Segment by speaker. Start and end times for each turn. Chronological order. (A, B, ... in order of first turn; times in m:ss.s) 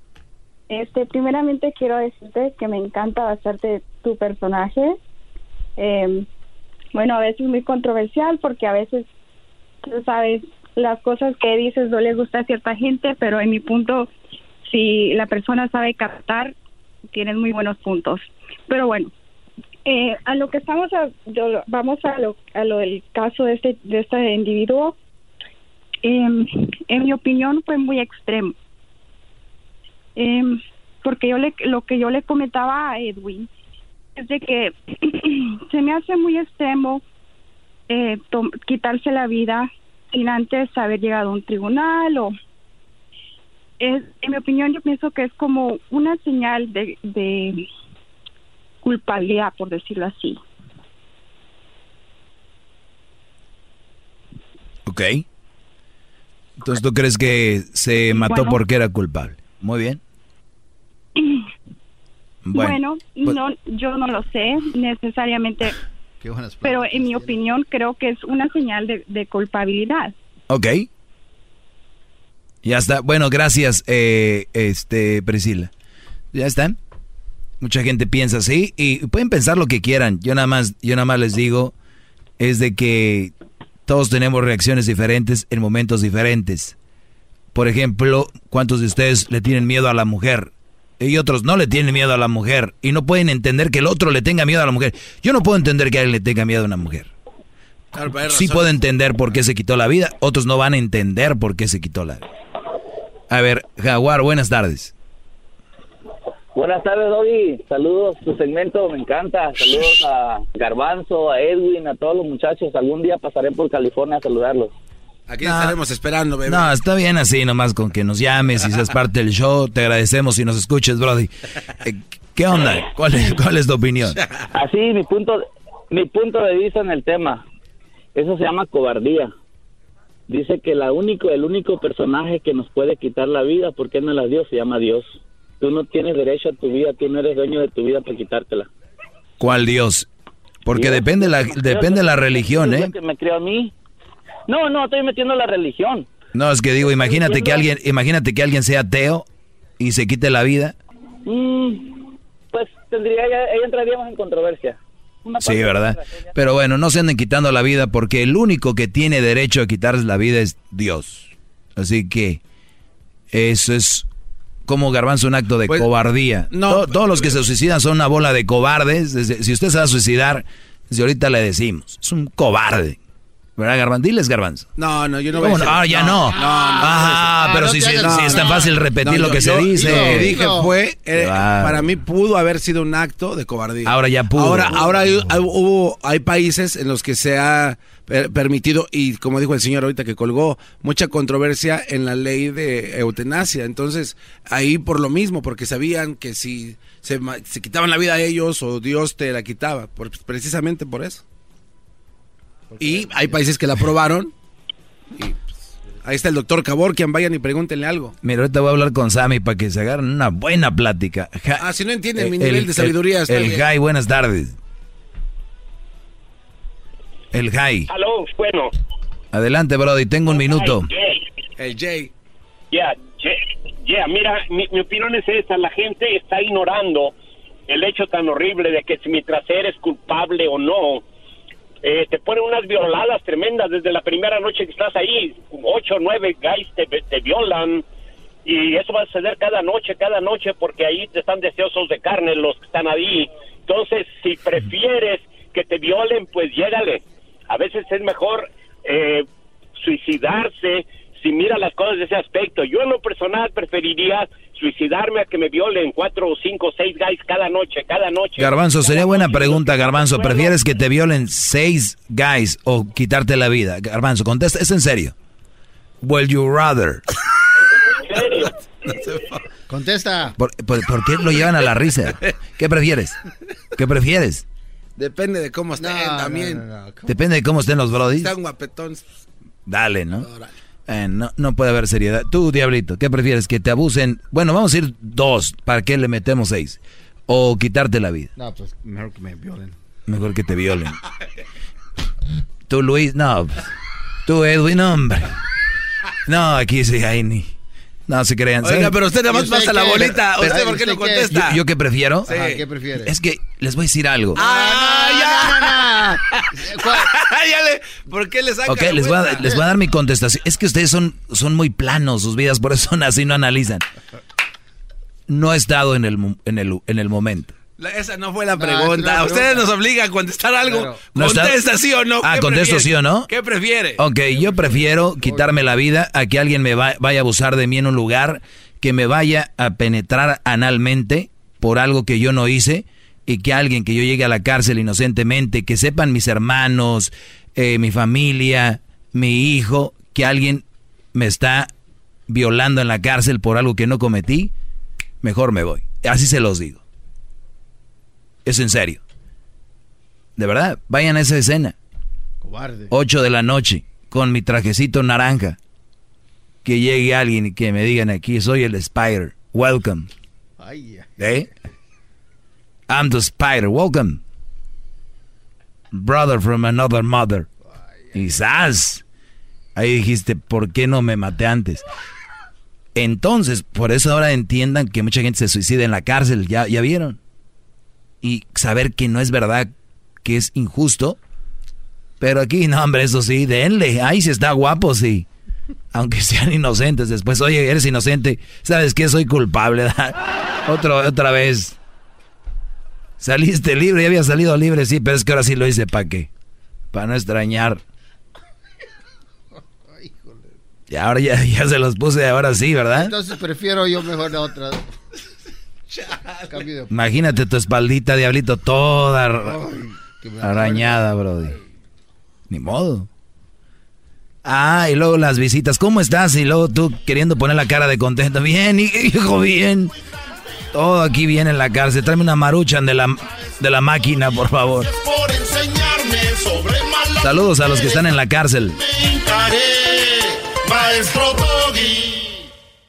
0:00.7-0:04.9 A
0:05.8-0:06.2 A
0:06.9-0:09.1 A
0:09.8-0:14.1 A
0:14.7-0:16.5 A
0:17.1-0:19.1 A
0:19.8-0:25.0 A
0:26.0-0:28.5 A
0:30.2-0:33.5 A
0:34.2-0:37.0 A
0:37.9-0:42.3 A
0:43.8-0:47.6 A
0:48.8-0:50.4 A
0:54.8-0:55.2 B
0:56.6-1:00.0 B
0:58.1-0:58.6 A
1:02.5-1:03.3 B
1:02.5-1:05.8 A
1:06.2-1:07.4 C
1:06.6-1:10.1 A
1:10.5-1:10.9 B
1:12.6-1:15.7 B
1:16.3-1:16.8 B
1:17.6-1:21.7 B
1:22.4-1:23.3 B
1:23.8-1:26.8 B
1:27.5-1:37.1 B
1:38.0-1:38.7 D
1:38.2-1:42.3 B
1:43.3-1:44.9 B
1:46.6-1:54.7 E
1:55.3-1:56.7 D
1:55.4-1:55.8 B
1:56.4-2:01.3 B
2:01.8-2:04.2 B
2:04.1-2:04.5 D
2:04.6-2:05.3 E
2:05.9-2:07.4 E
2:08.2-2:09.2 E
2:10.3-2:15.1 E
2:15.6-2:18.6 E
2:19.4-2:20.1 B
2:20.6-2:22.9 B
2:21.7-2:23.7 E
2:24.5-2:26.0 E
2:26.3-2:29.3 B
2:29.8-2:30.7 B
2:31.3-2:31.8 E
2:32.5-2:34.8 E
2:35.3-2:36.0 E
2:35.5-2:42.4 B
2:43.3-2:44.1 B
2:44.7-2:53.0 B
2:46.5-2:47.4 D
2:53.6-2:54.7 B
2:54.8-3:21.2 D
2:55.4-3:00.3 B
2:56.3-2:58.8 C
2:59.8-3:00.7 C
3:01.1-3:01.8 B
3:03.8-3:04.8 B
3:22.7-3:23.4 C
3:22.8-3:24.3 D
3:26.0-3:28.1 D
3:28.2-3:31.6 B
3:31.6-3:33.6 D
3:32.2-3:34.5 B
3:37.3-3:37.9 B
3:37.9-3:38.7 F
3:39.3-3:40.9 B
3:40.3-3:41.2 F
3:41.6-3:42.1 D
3:42.7-3:47.1 F
3:47.7-3:51.0 F
3:51.8-3:57.8 F
3:58.4-4:09.2 F
4:09.8-4:19.6 F
4:18.4-4:25.1 B
4:20.1-4:20.5 F
4:26.0-4:27.0 B
4:28.1-4:28.4 F
4:28.2-4:29.4 D
4:29.7-4:30.3 C
4:30.4-4:33.2 B
4:33.8-4:34.4 B
4:35.0-4:36.6 D
4:35.8-4:37.2 C
4:37.1-4:38.3 B
4:38.0-4:39.0 D
4:39.7-4:40.3 B
4:40.2-4:40.5 D
4:40.9-4:48.3 B
4:48.4-4:49.7 C
4:50.1-4:51.0 B
4:52.7-4:53.6 B
4:54.2-4:55.3 B
4:56.3-4:57.5 B
4:58.1-4:58.9 B
4:58.6-5:01.6 D
4:59.2-5:01.4 C
5:01.3-5:02.3 B
5:02.2-5:03.1 C
5:02.3-5:02.6 D
5:03.0-5:04.4 B
5:04.4-5:09.5 D
5:04.4-5:07.1 C
5:08.6-5:13.8 B
5:15.3-5:17.5 B
5:17.8-5:24.0 D
5:18.6-5:19.7 C
5:20.6-5:21.1 C
5:21.1-5:21.6 B
5:22.2-5:23.3 B
5:24.0-5:41.7 B
5:24.3-5:25.5 C
5:42.3-5:44.5 B
5:45.2-5:46.8 B
5:48.4-5:49.0 B
5:50.4-5:51.7 B
5:52.4-5:52.9 C
5:52.9-5:55.6 B
5:56.6-6:00.1 B
6:00.6-6:01.1 C
6:01.2-6:01.5 B
6:02.9-6:04.2 B
6:05.9-6:07.5 B
6:07.7-6:08.4 C
6:08.1-6:09.0 B
6:09.8-6:11.8 B
6:12.9-6:17.2 B
6:18.2-6:19.7 B
6:20.2-6:21.2 B
6:22.2-6:25.3 B
6:25.9-6:31.8 B
6:33.2-6:36.3 B
6:36.9-6:37.8 B
6:39.8-6:40.5 C
6:40.9-6:43.1 B
6:42.9-6:44.9 C
6:45.9-6:46.6 D
6:46.5-6:47.0 C
6:46.9-6:49.5 B
6:49.4-6:51.6 C
6:50.4-6:51.5 B
6:52.5-6:53.1 B
6:54.4-6:59.9 B
7:00.7-7:04.9 B
7:04.9-7:08.1 G
7:07.2-7:08.8 B
7:08.8-7:12.4 G